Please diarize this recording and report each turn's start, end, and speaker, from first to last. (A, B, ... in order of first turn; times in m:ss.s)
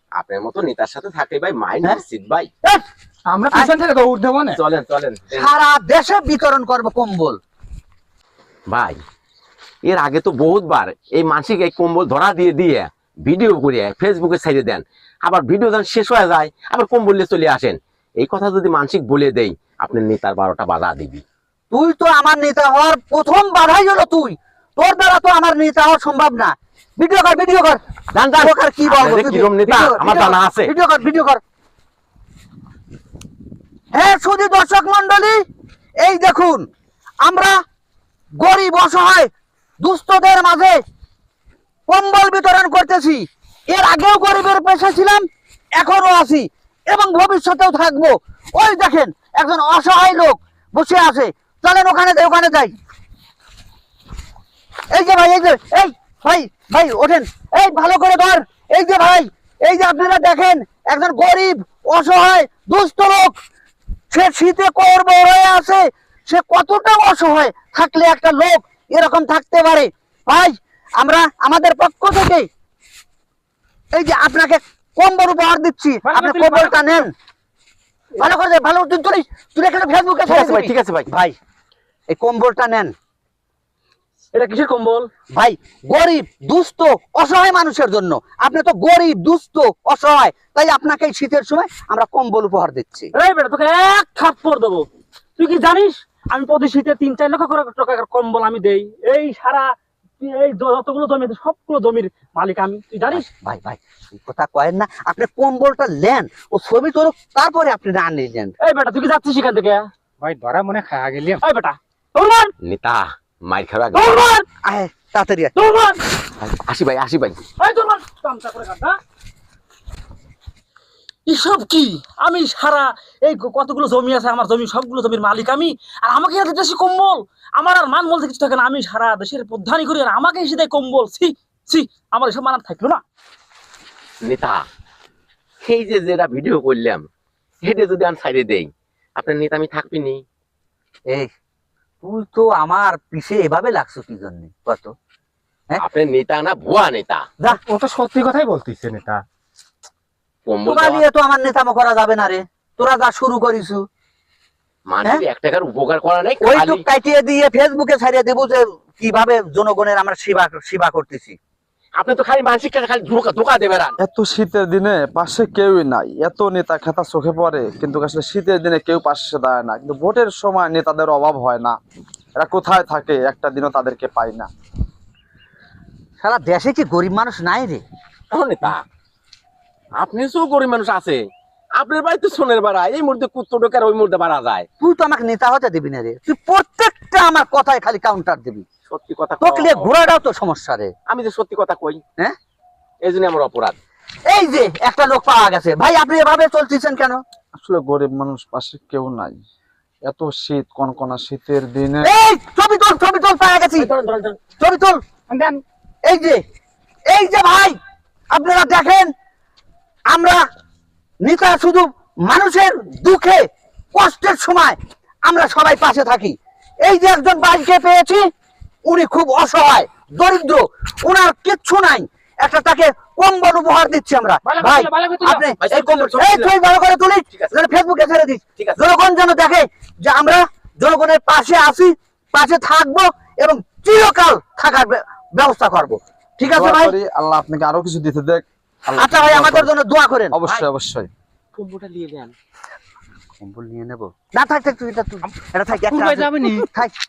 0:00.2-0:02.5 A
0:03.3-0:04.6 B
0:04.5-0:05.5 A
0:05.4-0:07.4 C
0:08.7-0:09.0 A
0:09.9-0:21.2 A
0:21.7-0:27.8 C
0:28.1-0:30.7 A
0:28.4-0:31.4 C
0:33.9-0:35.4 C
0:36.0-0:36.6 C
0:37.2-0:37.6 C
0:38.4-0:39.3 C
0:39.8-0:40.8 C
0:41.9-0:45.2 C
0:45.8-0:52.7 C
0:54.9-1:03.4 C
1:04.1-1:12.5 C
1:13.9-1:17.1 C
1:16.0-1:16.9 D
1:18.2-1:21.4 C
1:20.3-1:21.1 A
1:22.1-1:22.9 C
1:24.3-1:25.1 D
1:25.4-1:33.1 C
1:33.2-1:34.8 D
1:35.4-1:39.7 D
1:40.2-1:43.3 D
1:43.1-1:48.6 C
1:48.6-1:49.9 D
1:50.2-1:51.4 B
1:51.4-1:52.5 D
1:52.6-1:54.3 A
1:53.9-1:54.5 D
1:54.6-1:55.6 C
1:55.6-1:56.0 D
1:56.4-1:57.4 A
1:57.6-1:59.0 D
2:01.3-2:13.0 D
2:14.2-2:14.6 A
2:15.6-2:17.0 A
2:17.6-2:20.2 A
2:22.0-2:24.9 C
2:25.8-2:27.3 A
2:27.5-2:29.2 B
2:30.5-2:31.0 A
2:30.6-2:33.8 C
2:34.9-2:36.8 A
2:36.4-2:41.4 C
2:42.0-2:44.0 A
2:44.0-2:51.8 E
2:52.4-2:54.5 E
2:56.2-2:57.8 C
2:58.3-2:58.8 A
3:00.0-3:01.2 A
3:01.8-3:04.7 A
3:04.8-3:08.7 C
3:08.9-3:09.9 A
3:09.4-3:10.9 C
3:11.1-3:12.0 A
3:13.0-3:13.8 A
3:14.3-3:17.2 C
3:17.6-3:19.4 E
3:20.0-3:22.1 E
3:22.0-3:23.9 C
3:23.8-3:24.4 A
3:24.6-3:25.0 C
3:25.3-3:25.6 B
3:26.1-3:26.4 C
3:27.1-3:27.8 C
3:28.3-3:29.1 C
3:30.1-3:30.4 C
3:31.2-3:38.3 C
3:38.9-3:57.0 C
3:44.5-3:45.4 B
3:45.6-3:46.5 A
3:56.5-3:59.7 E
3:59.0-4:00.3 C
4:00.3-4:01.1 E
4:01.6-4:02.3 A
4:03.4-4:06.9 C
4:05.9-4:06.7 B